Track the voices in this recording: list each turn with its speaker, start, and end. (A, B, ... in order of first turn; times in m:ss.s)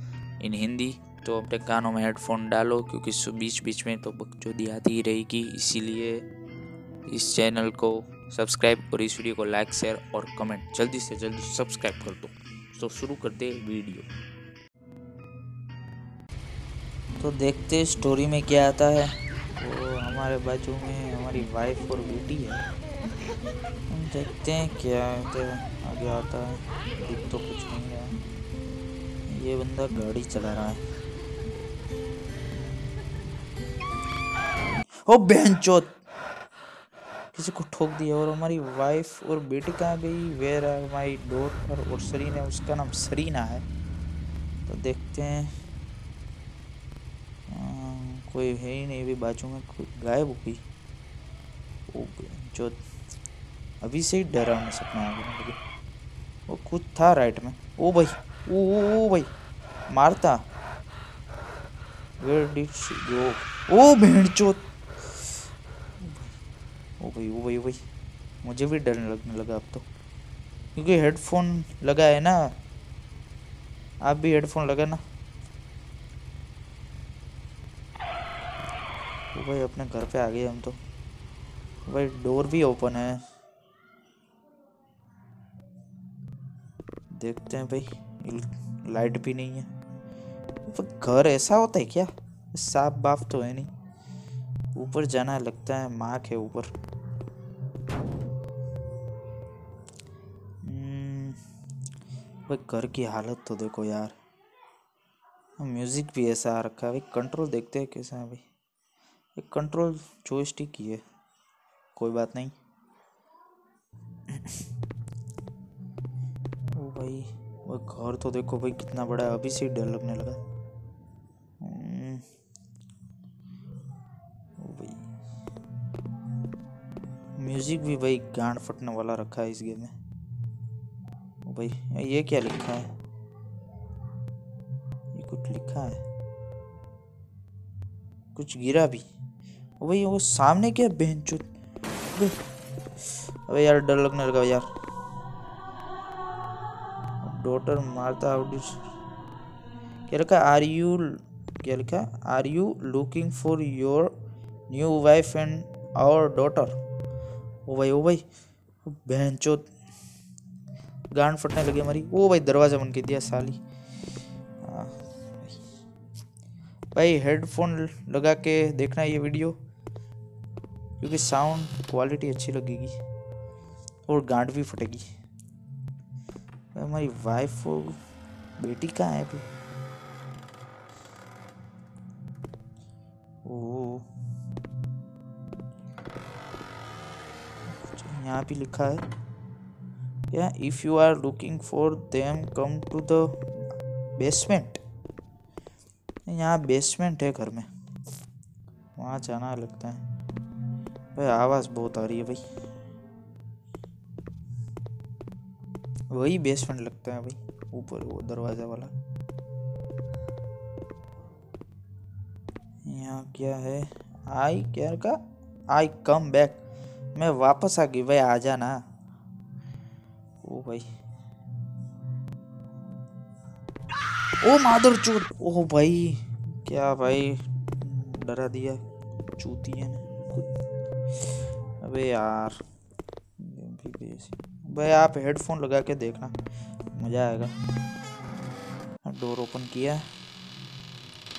0:00.4-0:06.3 A
0:07.1-0:14.1 A
0:17.2-0:22.6 A
0:23.9-0:28.2 A
0:29.3-0:30.8 A
0:32.5-0:32.9 A
0:35.1-0:36.0 A
0:37.3-0:43.6 A
0:44.7-0:45.5 A
0:47.5-0:50.6 A
0:51.9-0:52.8 A
0:53.8-0:55.6 A
0:56.5-0:59.3 A
0:59.9-1:00.4 A
1:02.2-1:05.5 A
1:06.0-1:06.4 A
1:07.0-1:07.8 A
1:08.4-1:09.9 A
1:10.8-1:12.5 A
1:14.0-1:15.0 A
1:19.3-1:20.8 A
1:21.9-1:23.2 A
1:27.1-1:29.7 A
1:30.7-1:33.7 A
1:34.8-1:36.7 A
1:40.6-1:41.4 A
1:42.5-1:44.2 A
1:45.6-1:48.4 A
1:49.4-1:51.0 A
1:52.0-1:52.6 A
1:54.3-1:54.6 A
1:56.8-2:00.4 A
2:01.6-2:02.2 A
2:04.6-2:05.0 A
2:07.4-2:09.9 A
2:11.4-2:12.9 A
2:15.1-2:16.0 A
2:18.3-2:19.1 A
2:19.8-2:21.5 A
2:23.0-2:24.7 A
2:27.2-2:28.8 A
2:30.1-2:34.1 A
2:34.7-2:36.8 A
2:37.7-2:38.2 A
2:38.8-2:39.7 A
2:41.1-2:43.6 A
2:44.6-2:45.6 A
2:46.9-2:49.6 A
2:51.0-2:53.0 A
2:54.1-2:55.1 A
2:56.7-2:58.0 A
2:58.6-2:59.4 A
3:03.4-3:04.1 A
3:07.7-3:09.1 A
3:10.3-3:13.4 A
3:14.2-3:14.8 A
3:16.3-3:17.7 A
3:19.0-3:20.0 A
3:21.2-3:22.4 A
3:26.1-3:28.9 A
3:32.8-3:35.2 A
3:35.7-3:36.6 A
3:37.2-3:38.8 A
3:40.4-3:40.9 A
3:44.4-3:48.8 A
3:49.4-3:50.5 A
3:51.2-3:52.6 A
3:53.4-3:56.4 A
3:56.9-3:57.5 A
3:59.0-4:00.1 A